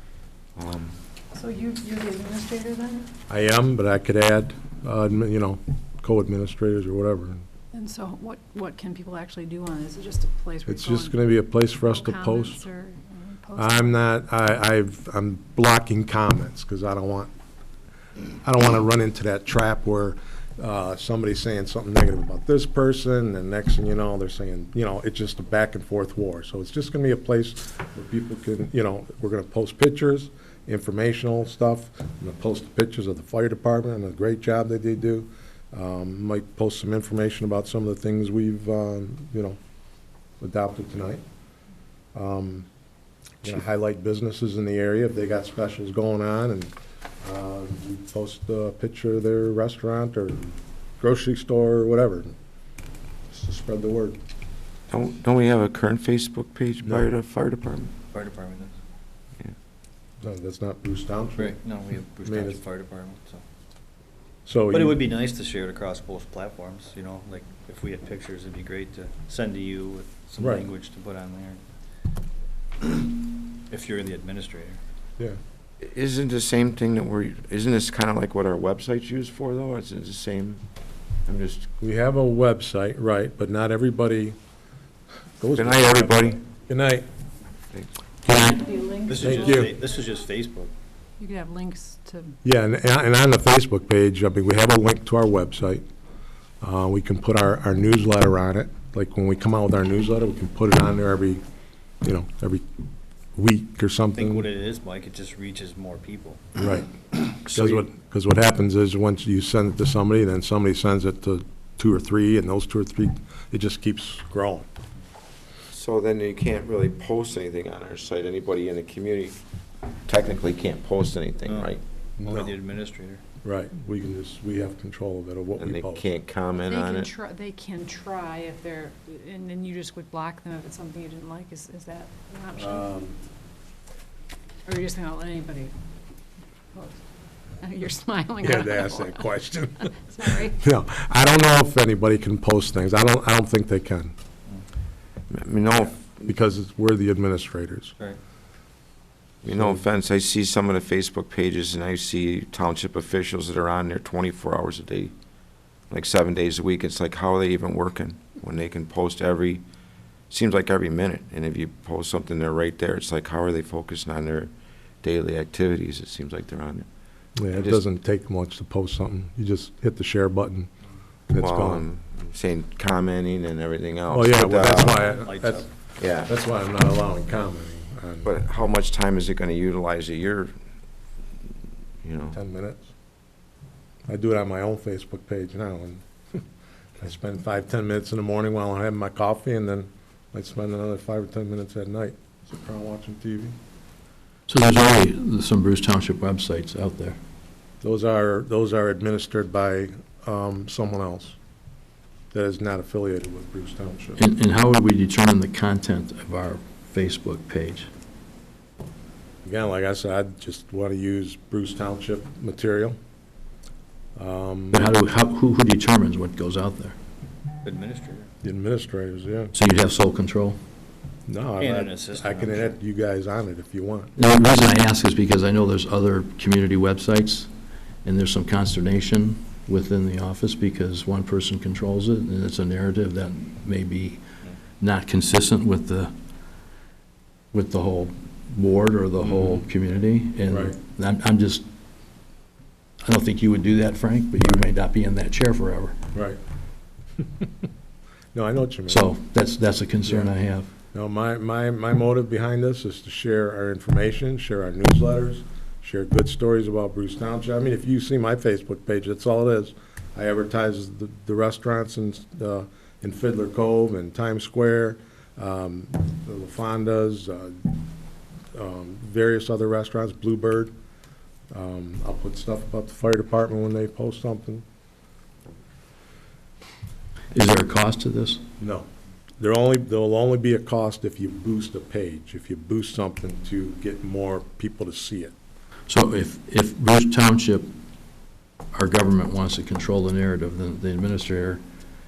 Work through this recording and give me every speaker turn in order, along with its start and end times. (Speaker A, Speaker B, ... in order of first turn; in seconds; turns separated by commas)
Speaker A: 0.6-1.0, Speaker B: 1.3-3.1, Speaker C: 3.3-7.4, Speaker B: 7.7-11.2, Speaker C: 10.7-12.6, Speaker B: 11.9-13.9, Speaker C: 13.6-17.3, Speaker C: 18.4-39.6, Speaker C: 40.4-41.2, Speaker C: 42.1-42.7, Speaker C: 43.4-52.3, Speaker C: 53.3-54.2, Speaker A: 54.9-57.9, Speaker D: 58.1-58.8, Speaker C: 60.2-61.6, Speaker D: 61.4-63.4, Speaker C: 62.2-62.6, Speaker C: 64.5-65.0, Speaker D: 64.7-71.6, Speaker C: 70.4-70.7, Speaker D: 72.8-74.8, Speaker A: 75.8-80.6, Speaker A: 81.3-81.7, Speaker C: 81.8-84.4, Speaker C: 85.4-87.1, Speaker A: 85.5-86.4, Speaker E: 88.3-88.6, Speaker B: 88.6-89.5, Speaker D: 89.1-90.7, Speaker C: 89.2-89.7, Speaker B: 91.2-92.4, Speaker C: 92.4-95.8, Speaker C: 96.6-101.4, Speaker C: 102.0-102.6, Speaker C: 103.3-104.5, Speaker D: 104.1-106.4, Speaker C: 106.6-114.7, Speaker E: 107.5-107.8, Speaker A: 115.7-119.4, Speaker A: 120.1-121.8, Speaker D: 121.5-123.2, Speaker C: 122.2-122.5, Speaker C: 123.4-126.1, Speaker A: 125.6-127.1, Speaker B: 126.7-132.9, Speaker C: 132.6-133.2, Speaker B: 134.6-135.7, Speaker B: 136.7-137.0, Speaker B: 137.6-139.2, Speaker C: 138.4-144.1, Speaker B: 140.1-140.6, Speaker A: 145.3-146.3, Speaker C: 145.8-147.9, Speaker A: 149.4-155.1, Speaker C: 149.5-149.8, Speaker A: 155.9-159.6, Speaker A: 160.3-164.5, Speaker A: 165.0-166.8, Speaker C: 167.3-170.7, Speaker A: 167.5-167.8, Speaker C: 171.3-171.8, Speaker A: 171.3-175.0, Speaker C: 174.1-178.3, Speaker D: 174.8-175.7, Speaker A: 176.0-176.3, Speaker A: 178.2-180.5, Speaker A: 182.0-182.4, Speaker C: 182.3-182.9, Speaker C: 184.1-186.4, Speaker C: 187.0-193.6, Speaker E: 194.5-197.2, Speaker C: 197.8-201.3, Speaker C: 202.3-204.2, Speaker E: 204.2-207.9, Speaker C: 209.4-213.0, Speaker C: 214.2-214.8, Speaker E: 214.7-216.9, Speaker D: 217.6-218.3, Speaker C: 218.4-219.5, Speaker E: 219.5-220.6, Speaker C: 221.3-224.1, Speaker D: 221.6-222.7, Speaker E: 224.2-227.5, Speaker E: 228.0-234.2, Speaker E: 234.8-236.1, Speaker E: 237.5-241.7, Speaker C: 240.5-240.8, Speaker E: 243.0-246.0, Speaker C: 246.1-246.4, Speaker C: 247.2-247.4, Speaker C: 248.3-249.0, Speaker E: 248.9-250.7, Speaker C: 250.9-267.7, Speaker C: 268.5-270.7, Speaker C: 271.5-274.6, Speaker E: 277.3-278.4, Speaker C: 278.6-278.9, Speaker C: 279.4-285.3, Speaker E: 285.9-287.7, Speaker E: 288.7-291.6